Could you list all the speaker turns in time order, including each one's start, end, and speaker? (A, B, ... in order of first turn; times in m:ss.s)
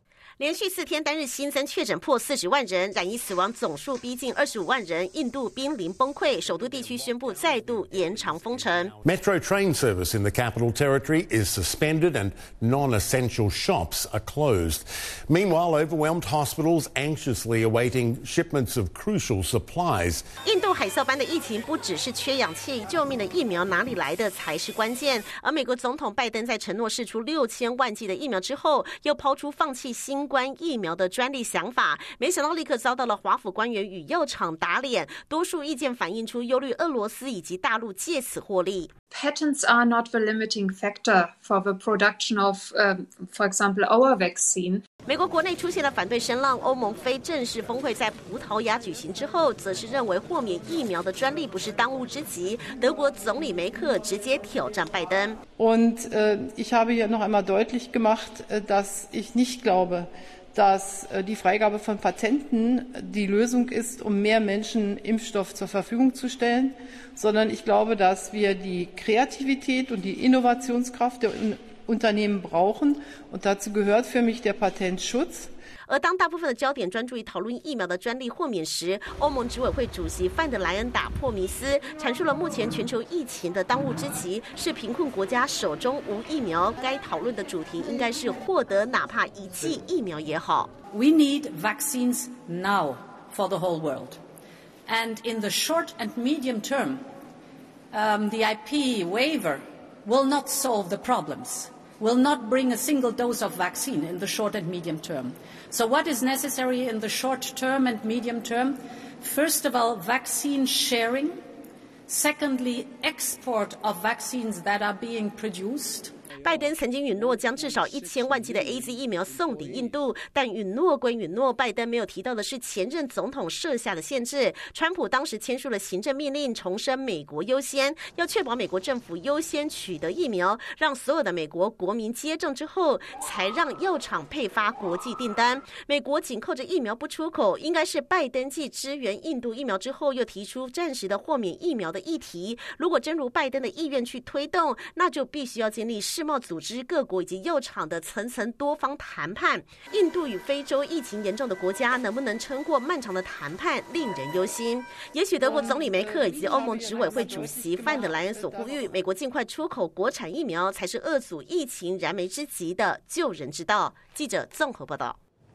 0:00.4-0:08.9 A
0:07.0-0:20.2 B
0:20.4-0:38.9 A
0:39.1-0:44.8 C
0:45.0-0:55.4 A
0:55.6-1:15.5 D
1:15.9-1:30.7 A
1:30.9-1:34.2 E
1:34.9-1:37.0 E
1:37.9-1:51.4 E
1:52.1-1:56.1 E
1:56.4-2:45.2 A
2:35.4-2:38.9 D